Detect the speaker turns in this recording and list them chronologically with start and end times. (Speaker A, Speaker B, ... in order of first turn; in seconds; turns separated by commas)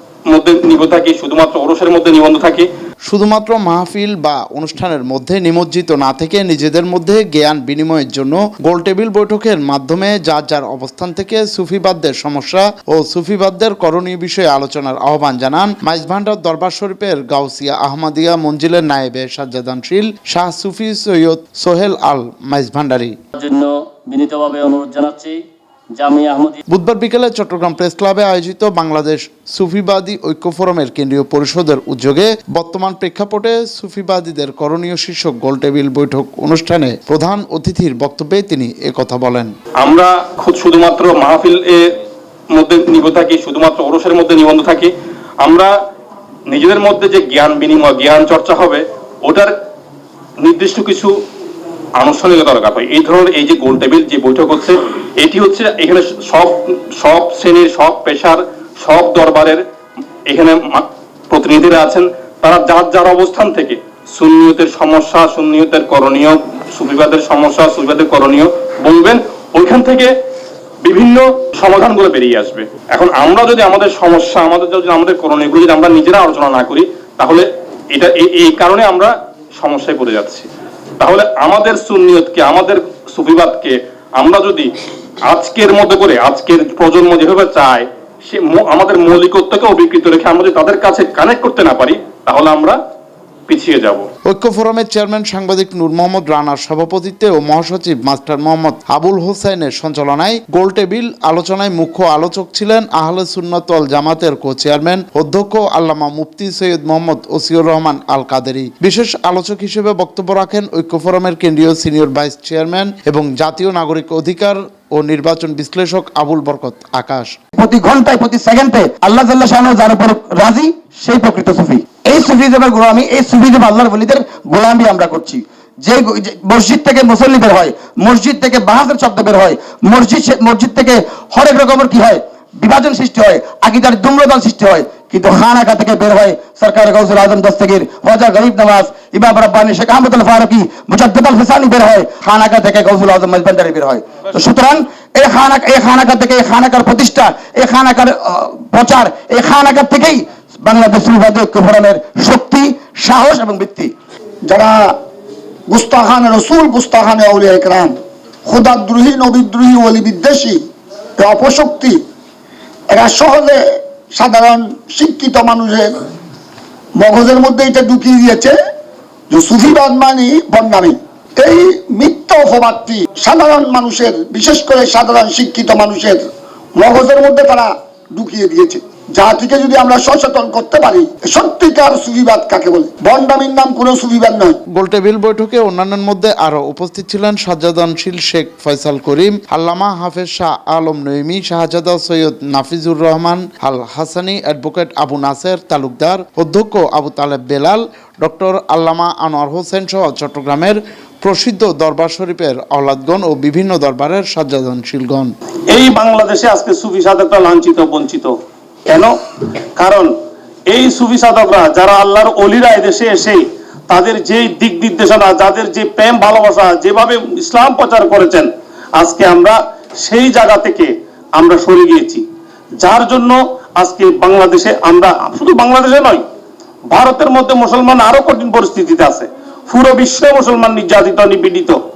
Speaker A: 0.3-2.7, Speaker B: 3.1-23.1, Speaker C: 23.3-26.6, Speaker B: 26.7-39.5, Speaker A: 39.8-41.8, Speaker A: 42.5-45.7, Speaker A: 46.5-49.5, Speaker A: 50.4-51.1, Speaker A: 52.0-59.6, Speaker A: 60.3-70.1, Speaker A: 70.8-80.5, Speaker A: 81.0-84.7, Speaker A: 85.3-92.8, Speaker A: 93.5-94.0, Speaker B: 94.2-117.3, Speaker D: 117.5-153.9, Speaker E: 154.4-154.9, Speaker E: 155.7-160.6, Speaker E: 161.2-162.0, Speaker E: 162.9-163.6, Speaker E: 164.1-165.9, Speaker E: 166.9-168.6, Speaker E: 169.3-176.2, Speaker E: 176.8-184.6, Speaker B: 184.7-205.3, Speaker F: 205.7-208.3, Speaker F: 208.9-209.1, Speaker F: 209.8-210.1, Speaker F: 210.7-222.2, Speaker F: 222.8-226.2, Speaker F: 226.9-231.8